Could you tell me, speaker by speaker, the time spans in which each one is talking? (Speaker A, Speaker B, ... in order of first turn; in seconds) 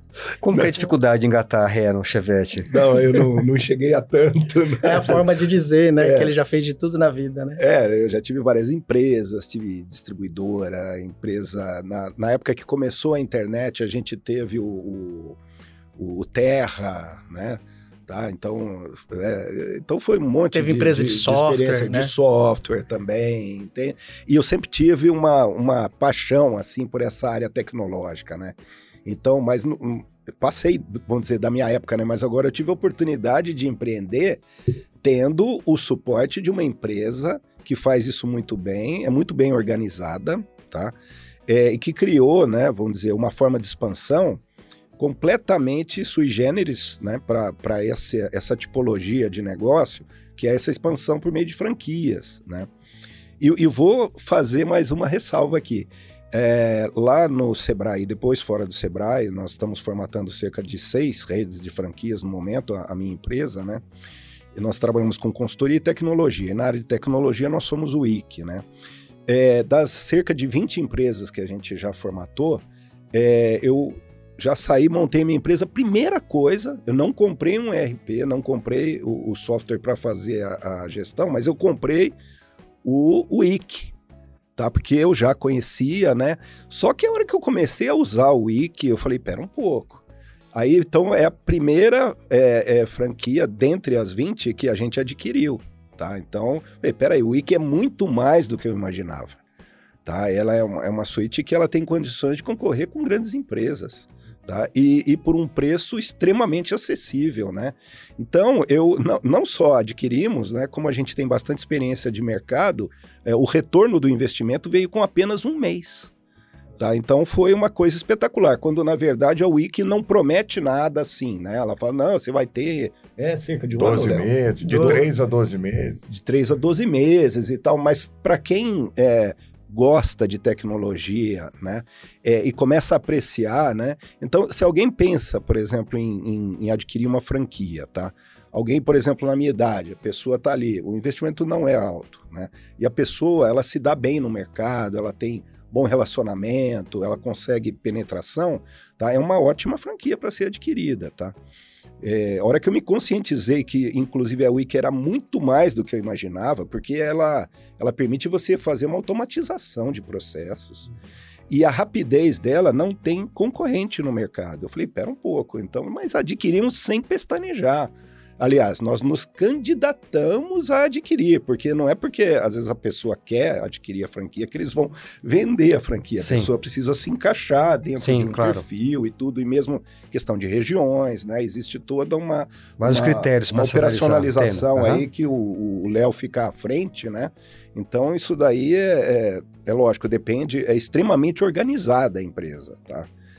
Speaker A: 0.4-2.8, 176.2-176.5, 178.0-178.7, 182.8-185.1
Speaker B: 2.7-5.2, 6.0-6.3, 7.6-15.4, 16.0-34.4, 35.0-40.9, 41.5-44.4, 45.0-52.7, 53.4-63.8, 64.5-68.7, 69.3-82.2, 82.8-83.9, 84.6-90.0, 90.5-99.4, 100.0-116.1, 116.8-125.1, 126.1-151.3, 152.0-160.9, 161.5-193.1
Speaker C: 4.8-7.6, 20.5-22.1, 124.6-125.0
Speaker D: 123.8-126.1